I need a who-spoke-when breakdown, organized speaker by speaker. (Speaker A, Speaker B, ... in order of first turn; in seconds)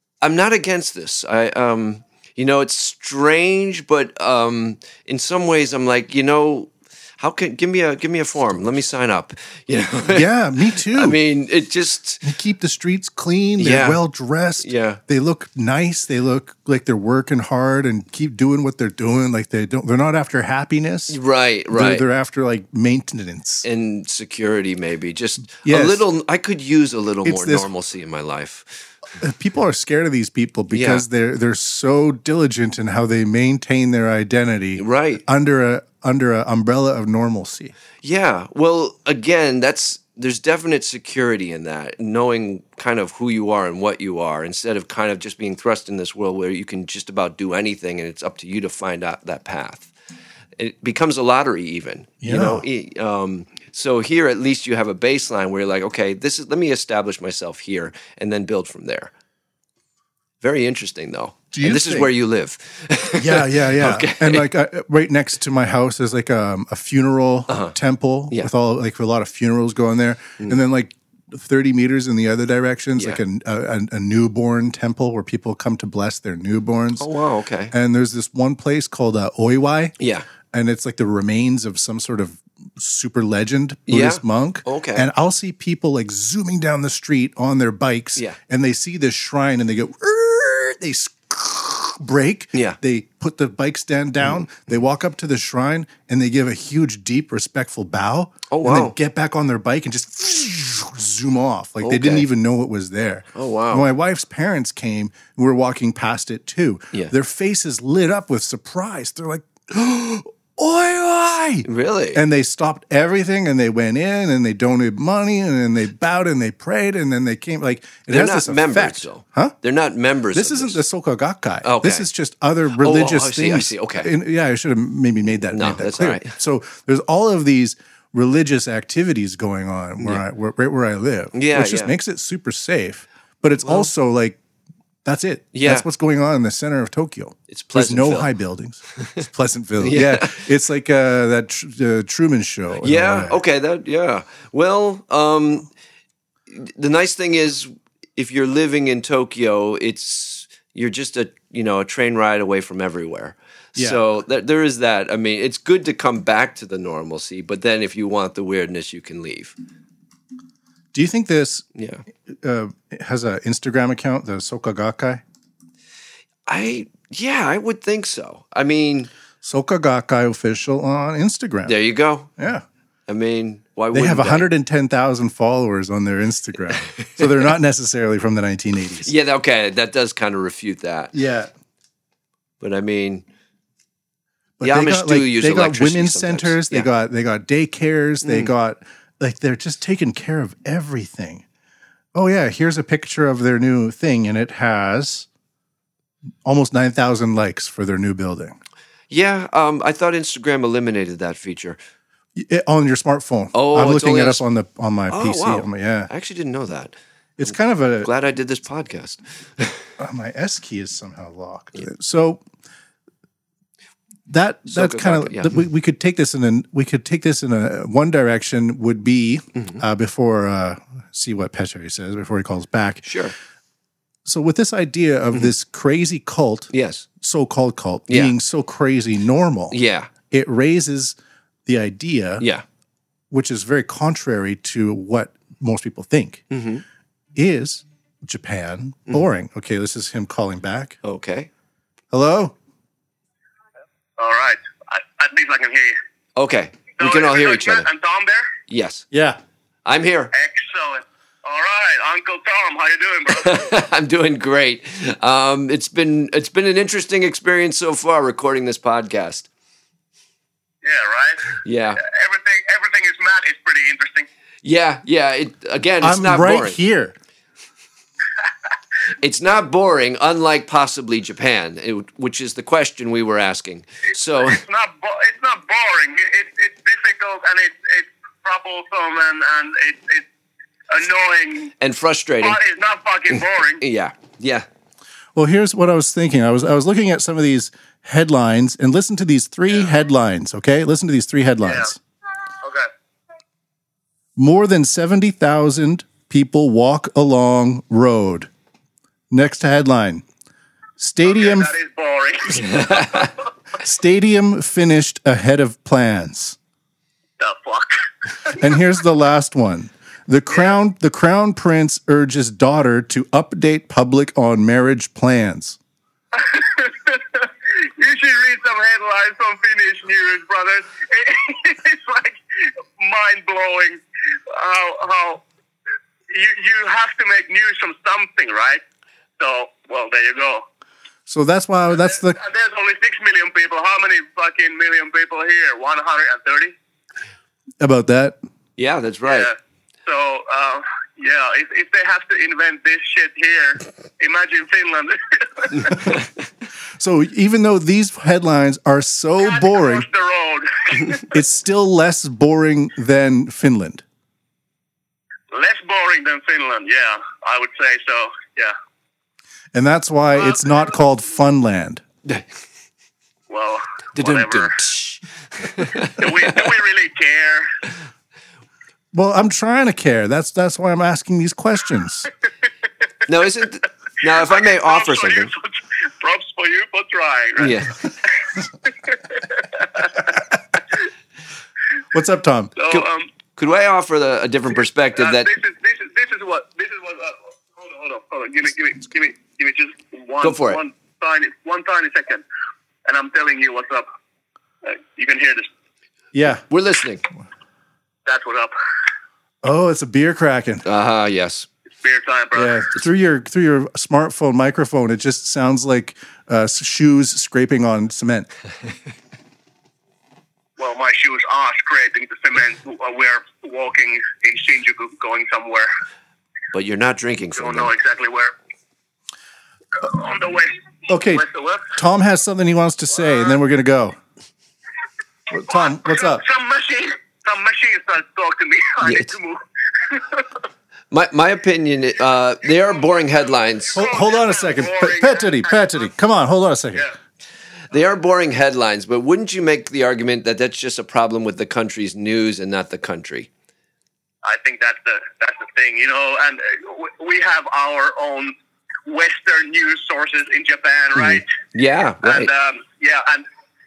Speaker A: 0.2-12.2, 13.6-14.0, 14.6-15.0, 21.1-22.1, 23.6-28.9, 30.7-31.1, 34.8-35.2, 38.0-49.9, 50.6-59.1, 60.4-64.5, 67.5-67.8, 73.0-73.2, 77.0-77.7, 80.0-80.3, 83.9-85.1, 98.5-99.0, 101.8-102.3, 103.3-103.9, 111.7-112.2, 118.1-120.8, 121.6-122.1, 122.8-124.1, 125.5-126.3, 131.3-131.9, 133.6-133.9, 135.5-135.9, 137.5-138.3, 139.8-140.5, 142.8-145.7, 146.5-159.6, 161.8-162.0, 166.5-169.1, 171.7-172.3, 173.1-174.5, 179.0-181.1, 182.6-183.2, 184.6-186.9, 188.2-188.5, 199.1-201.8, 203.5-204.4, 205.1-206.9, 207.5-209.9, 214.7-215.6, 219.6-219.8, 223.0-223.3, 226.7-227.1, 228.1-228.3, 229.7-230.1, 236.5-236.8, 241.0-241.5, 246.4-247.9, 248.7-249.1, 249.9-250.3, 253.3-259.5, 261.6-262.0, 264.6-266.8, 269.2-274.6, 281.8-282.6, 283.3-284.7, 302.6-303.3, 338.8-339.5, 364.2-366.7, 373.3-375.5, 377.6-378.0, 382.9-385.5, 390.4-390.8, 396.7-397.3, 400.9-401.7, 416.7-417.9, 429.0-429.3, 431.1-434.0, 437.9-443.5, 451.2-452.5
Speaker B: 10.1-11.2, 12.2-21.2, 21.7-23.6, 25.6-26.0, 27.2-27.7, 29.2-37.7, 52.2-52.6, 61.5-62.1, 63.2-77.1, 77.7-79.9, 80.5-119.5, 120.3-134.4, 135.1-143.4, 153.8-154.0, 160.9-161.7, 162.3-165.2, 169.4-171.8, 172.4-172.7, 173.9-179.1, 181.1-181.5, 184.6-191.4, 192.2-195.3, 196.4-198.6, 202.4-206.1, 207.4-208.1, 210.0-212.4, 214.3-223.1, 224.2-229.8, 230.3-232.4, 233.3-236.5, 237.3-241.0, 242.1-242.6, 249.1-249.4, 266.0-267.1, 285.4-292.0, 294.4-298.5, 299.3-300.2, 301.0-301.7, 303.8-306.6, 308.6-315.8, 331.3-332.4, 337.8-338.4, 347.0-350.1, 351.3-354.0, 359.7-362.0, 369.1-372.3, 382.1-382.7, 396.3-396.6, 399.6-400.9, 402.5-408.5, 421.1-424.2, 425.5-426.4, 433.9-437.1
Speaker C: 244.2-245.9, 247.0-248.5, 250.3-253.7, 260.8-264.3, 274.4-280.2, 280.9-281.7, 282.4-283.8, 291.6-291.9, 292.6-292.9, 301.2-303.4, 307.4-308.6, 316.3-325.4, 326.3-328.8, 329.4-330.7, 332.3-336.8, 339.3-339.6, 340.1-346.1, 349.4-351.4, 355.5-358.7, 360.4-360.8, 363.5-364.8, 366.0-367.7, 374.3-378.3, 378.9-380.3, 382.8-383.3, 385.2-392.4, 393.1-394.1, 394.8-395.7, 398.3-398.7, 402.0-402.8, 410.8-415.9, 417.6-418.5, 420.0-421.9, 425.7-430.5, 433.9-436.1, 444.4-448.5, 449.1-451.5, 452.2-453.5